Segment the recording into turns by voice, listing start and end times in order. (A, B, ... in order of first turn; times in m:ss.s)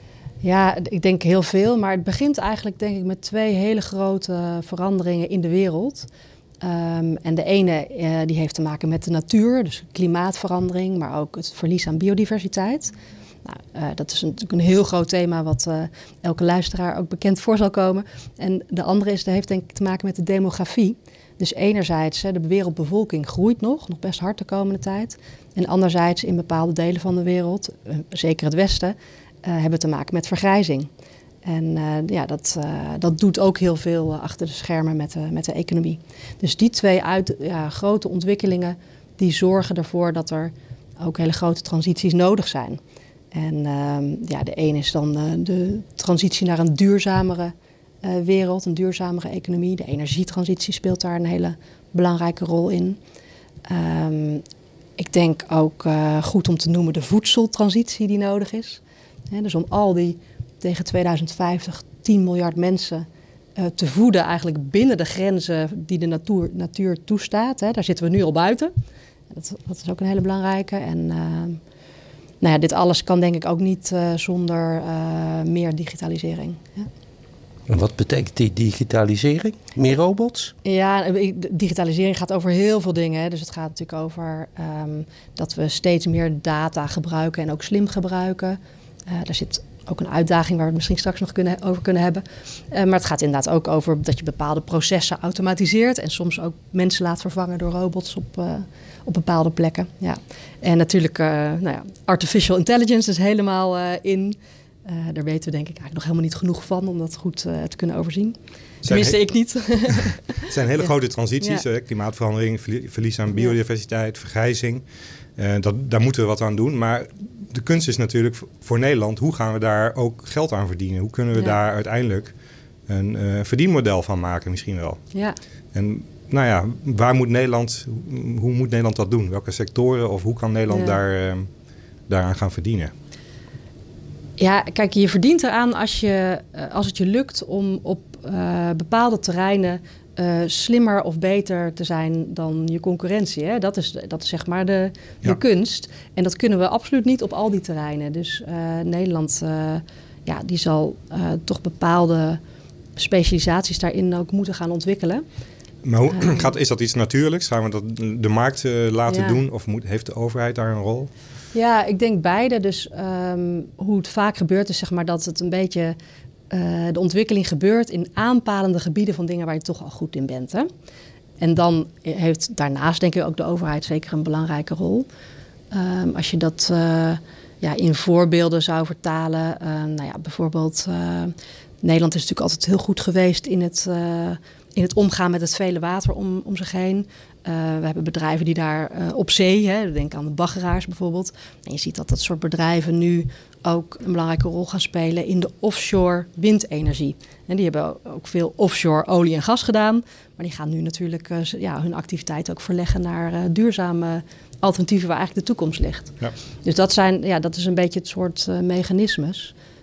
0:00.4-0:06.1 A
0:06.6-0:12.9 A
0:13.4-0:30.9 A
0:31.4-0:42.8 A
0:43.3-0:53.0 A
0:53.7-0:54.4 A
0:55.0-1:03.1 A
1:03.6-1:08.7 A
1:09.3-1:11.6 A
1:12.4-1:16.9 A
1:17.7-1:20.5 B
1:20.6-1:51.6 A
1:48.8-1:49.2 C
1:50.4-1:54.8 C
1:55.4-2:02.4 C
2:02.9-2:05.1 C
2:05.7-2:11.5 C
2:10.7-2:11.0 A
2:12.1-2:12.9 C
2:14.4-2:32.4 A
2:33.0-2:35.2 A
2:35.8-2:41.1 C
2:36.1-2:36.5 A
2:39.1-2:39.4 A
2:41.5-2:46.0 A
2:46.5-2:50.7 A
2:51.4-2:55.1 A
2:55.7-3:29.5 A